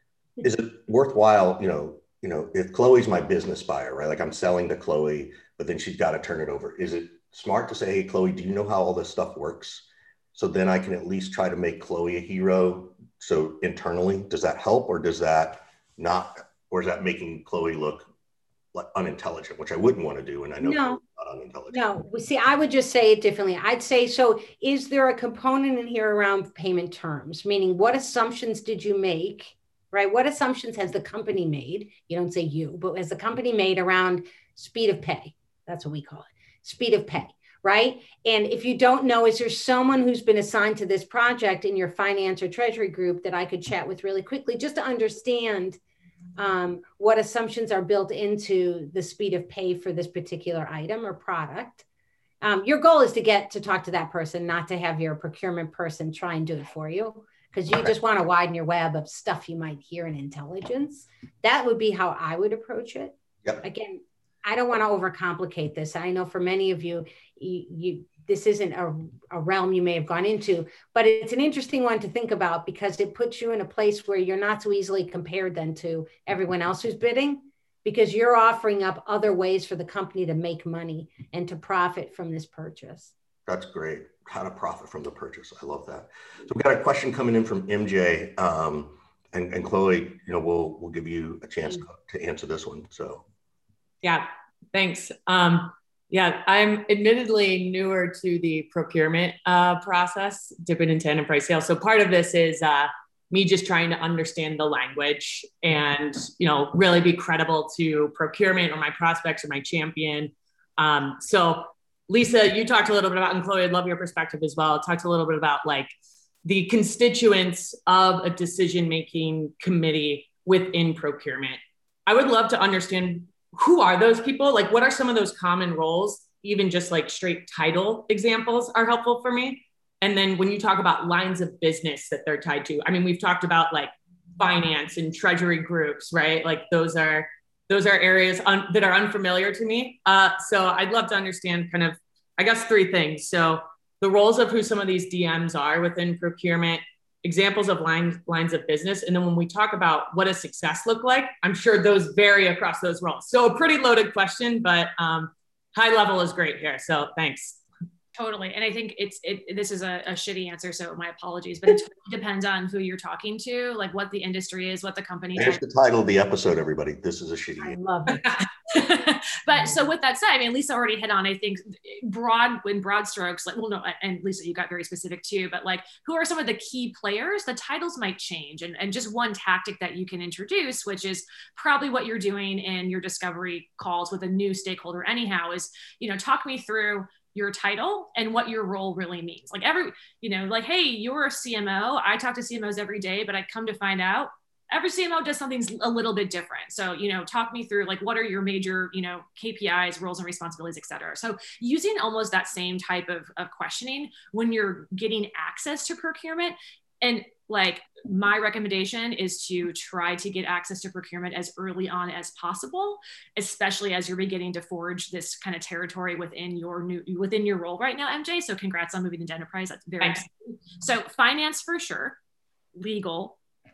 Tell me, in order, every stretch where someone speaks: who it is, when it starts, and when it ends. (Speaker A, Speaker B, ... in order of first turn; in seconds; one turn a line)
Speaker A: 0.4-18.1
Speaker A: 18.7-21.8
Speaker B: 20.6-21.0
Speaker B: 21.7-45.8
Speaker B: 46.4-51.9
Speaker B: 52.4-83.1
Speaker A: 83.5-93.2
Speaker C: 94.0-115.9
Speaker C: 116.5-157.6
Speaker D: 158.2-165.6
Speaker A: 165.4-167.8
Speaker B: 167.6-168.4
Speaker D: 168.7-222.2
Speaker C: 220.0-220.2
Speaker D: 222.8-223.4